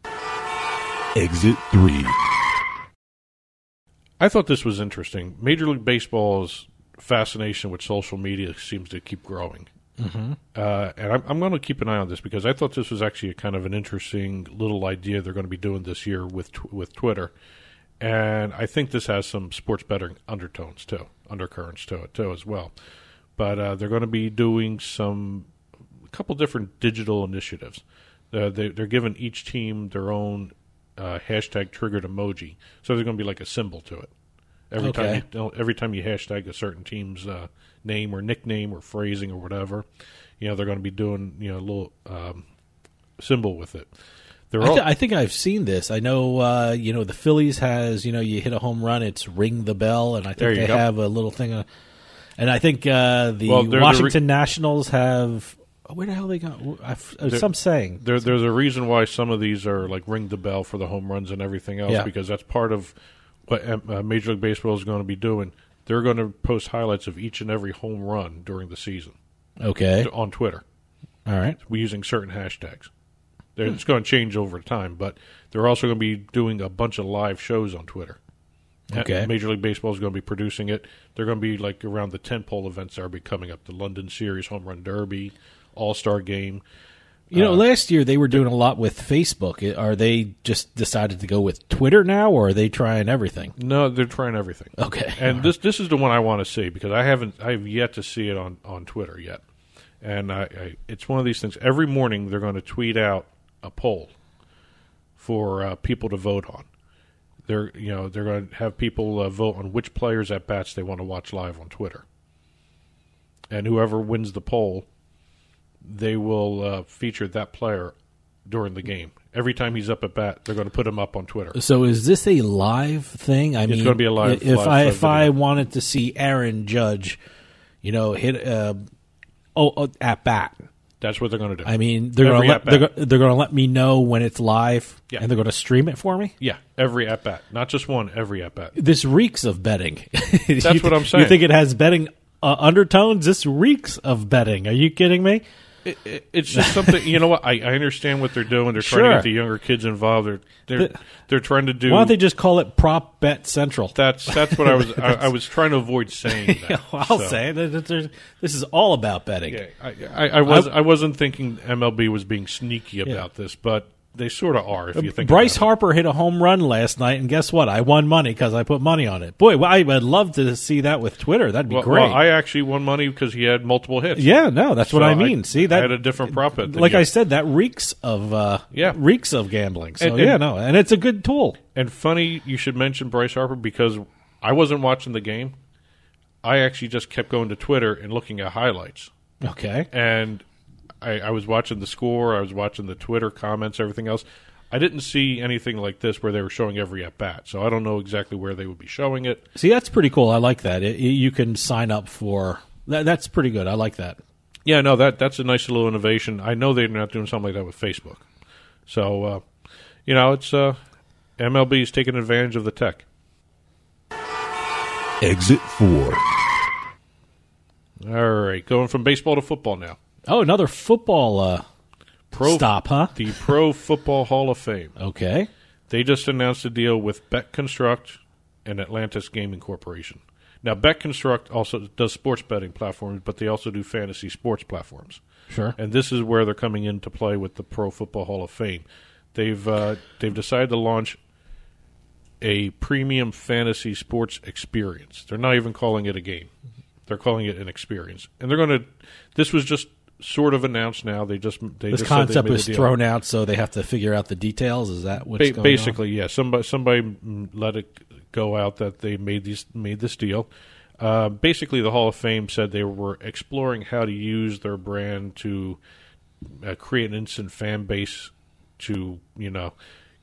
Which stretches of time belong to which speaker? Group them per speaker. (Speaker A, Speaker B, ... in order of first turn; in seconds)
Speaker A: 1.1-2.4, 215.2-216.6
Speaker B: 4.2-9.7, 10.6-17.3, 18.0-22.7, 23.4-25.5, 26.1-34.1, 34.7-39.9, 40.4-42.5, 43.2-43.9, 44.5-44.9, 50.4-50.9, 53.5-54.2, 57.2-62.9, 63.5-69.2, 70.0-70.6, 71.7-72.9, 73.6-78.2, 78.9-86.6, 87.3-87.6, 93.6-99.4, 100.0-104.1, 105.2-106.7, 107.5-112.0, 113.5-114.9, 115.8-118.0, 118.5-121.6, 123.7-125.3, 131.0-132.9, 136.4-138.8, 140.6-141.4, 145.8-152.2, 153.9-157.4, 159.5-165.7, 171.7-177.1, 178.7-179.0, 180.0-180.4, 181.8-185.6, 186.4-189.1, 189.9-190.4, 191.0-199.4, 204.7-208.3, 208.9-209.5, 210.1-210.8, 211.4-213.1, 218.0-220.0, 222.3-224.9, 225.9-235.2, 235.8-241.2, 242.4-246.5, 247.1-252.9, 255.4-260.5, 261.0-265.8, 266.5-269.8
Speaker C: 10.0-10.4, 34.8-35.2, 44.6-51.7, 52.4-58.0, 69.6-70.1, 71.3-71.6, 78.9-79.3, 87.3-93.5, 94.8-95.5, 121.5-127.2, 127.8-128.8, 129.6-130.7, 131.7-136.3, 138.8-145.4, 146.5-147.2, 148.8-149.3, 151.8-155.3, 156.3-159.6, 160.4-160.7, 164.9-172.2, 174.2-181.6, 189.4-189.9, 199.6-204.2, 220.3-221.7, 222.4-223.2, 225.0-225.5, 235.5-235.8, 251.9-256.0